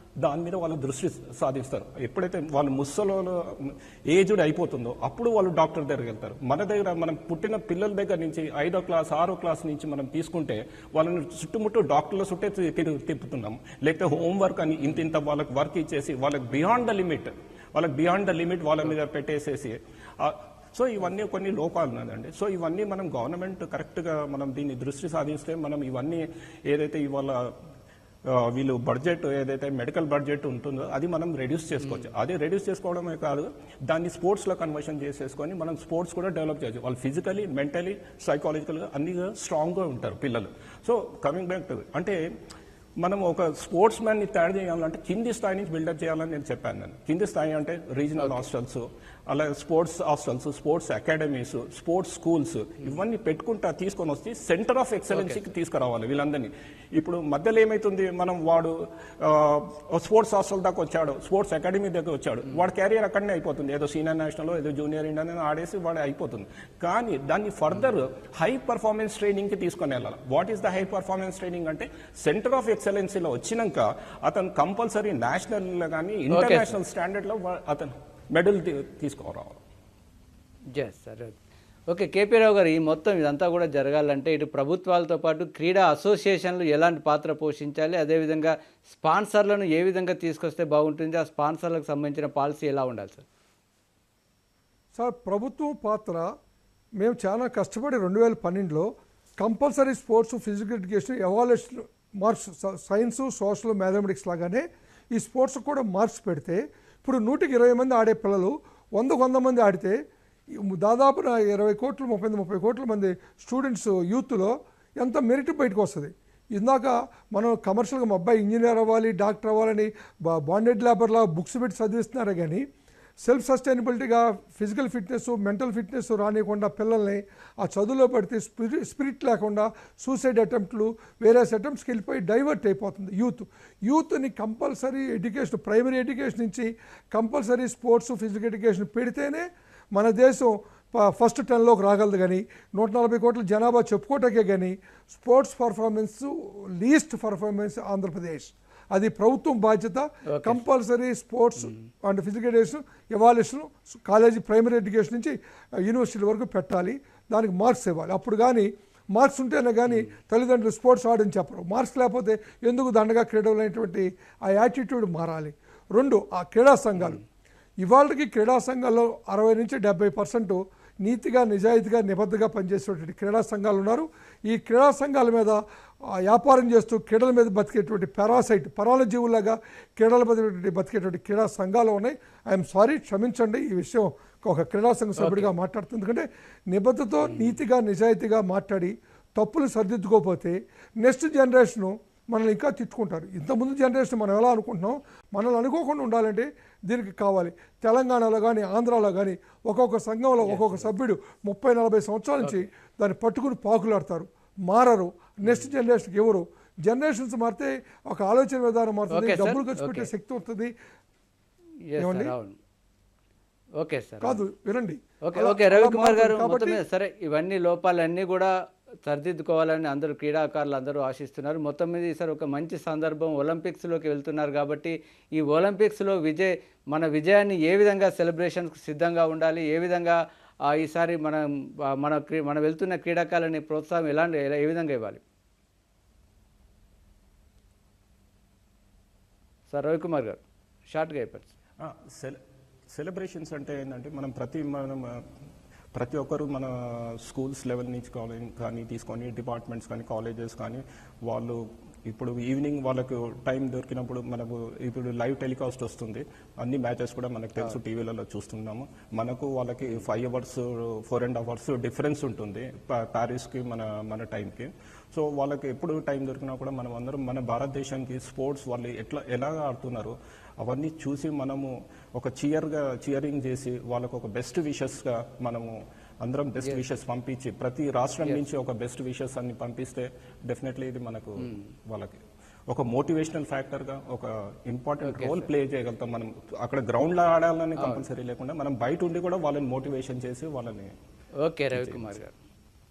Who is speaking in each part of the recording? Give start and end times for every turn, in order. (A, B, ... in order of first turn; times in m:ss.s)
0:00.2-0:27.5 A
0:28.2-0:42.2 A
0:43.0-1:19.6 A
0:48.2-0:48.4 B
1:16.3-1:16.7 B
1:20.7-1:21.4 B
1:21.9-1:33.2 B
1:35.0-1:36.3 C
1:37.0-1:50.0 C
1:50.6-2:02.6 C
2:03.2-2:47.2 C
2:30.3-2:30.6 B
2:31.6-2:31.9 B
2:47.8-2:55.6 C
2:56.1-3:30.7 C
3:05.2-3:05.5 B
3:20.4-3:20.9 B
3:25.4-3:25.7 B
3:29.1-3:30.1 B
3:31.9-3:32.6 B
3:32.0-3:32.3 C
3:33.8-3:34.4 B
3:34.2-3:36.8 C
3:35.2-3:38.5 B
3:39.0-3:55.2 B
3:59.7-4:01.6 B
4:01.8-4:02.4 A
4:02.9-4:05.3 A
4:05.9-4:50.9 A
4:41.4-4:41.7 B
4:45.0-4:45.5 B
4:47.8-4:48.1 B
4:51.4-4:52.4 B
4:51.7-4:52.2 A